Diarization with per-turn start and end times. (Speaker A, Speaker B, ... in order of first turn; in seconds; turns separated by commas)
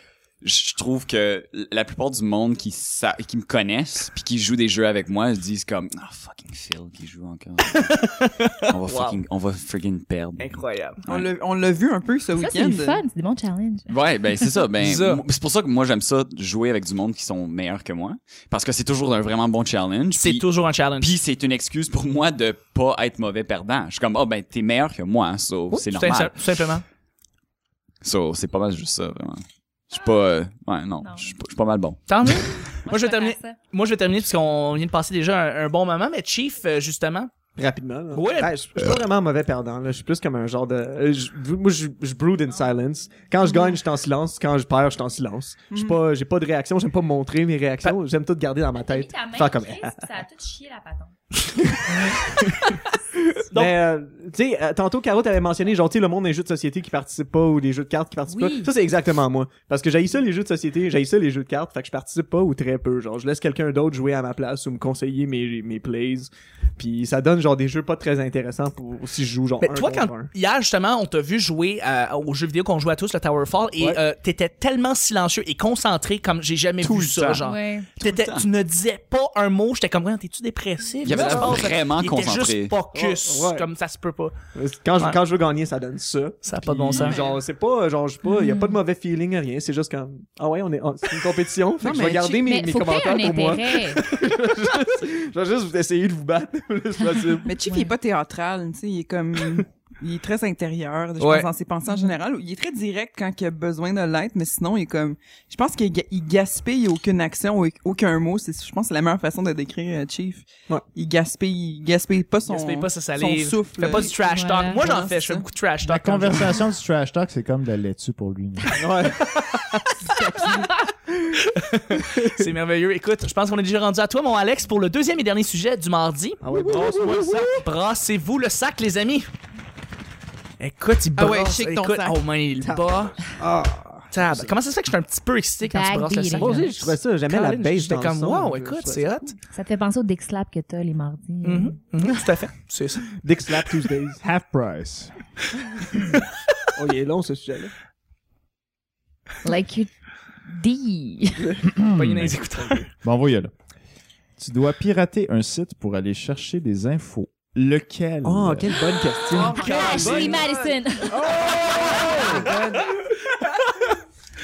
Speaker A: 0.4-8.2, Speaker B: 7.9-9.2, Speaker A: 8.7-10.5, Speaker B: 10.4-11.0, Speaker A: 11.1-11.3, Speaker C: 11.1-13.0, Speaker D: 12.4-13.9, Speaker A: 13.9-20.4, Speaker B: 14.8-15.2, Speaker B: 20.1-21.1, Speaker A: 21.0-26.4, Speaker B: 25.7-26.8, Speaker A: 28.0-32.4, Speaker D: 31.0-31.3, Speaker B: 32.1-37.3, Speaker D: 32.9-33.6, Speaker E: 37.6-50.1, Speaker B: 38.1-38.5, Speaker C: 45.7-46.0, Speaker D: 48.8-51.1, Speaker E: 53.5-70.3, Speaker B: 53.5-53.8, Speaker D: 58.3-58.7, Speaker B: 69.6-84.3, Speaker E: 76.9-77.3, Speaker D: 77.4-77.9, Speaker A: 78.0-78.5, Speaker A: 81.0-82.8, Speaker E: 81.1-81.7, Speaker E: 82.9-83.7, Speaker E: 84.5-97.5, Speaker B: 86.4-87.2, Speaker D: 88.2-88.8, Speaker C: 91.8-92.4, Speaker D: 92.4-94.0, Speaker D: 97.5-97.9, Speaker C: 97.5-114.1, Speaker E: 101.2-101.5, Speaker D: 101.9-102.1, Speaker B: 112.5-116.5, Speaker D: 114.0-114.9, Speaker C: 114.7-115.5, Speaker F: 115.8-118.8, Speaker E: 118.8-120.1, Speaker D: 120.1-120.7, Speaker B: 121.5-129.3, Speaker E: 122.1-122.4, Speaker E: 126.4-127.7, Speaker B: 130.6-133.3, Speaker C: 131.2-132.2, Speaker E: 132.6-134.6, Speaker B: 134.1-139.3, Speaker D: 135.7-136.7, Speaker E: 136.3-139.3, Speaker D: 139.5-141.8, Speaker B: 141.4-143.1, Speaker E: 143.2-144.2, Speaker F: 144.2-145.2, Speaker E: 146.8-147.7, Speaker D: 149.4-149.9, Speaker D: 150.4-151.4, Speaker F: 151.7-152.4, Speaker B: 152.0-152.9, Speaker E: 152.6-152.8, Speaker F: 153.0-153.5, Speaker F: 154.4-158.8, Speaker E: 158.2-160.4, Speaker C: 159.3-162.8, Speaker B: 159.5-160.4, Speaker D: 159.5-161.2, Speaker E: 161.1-162.9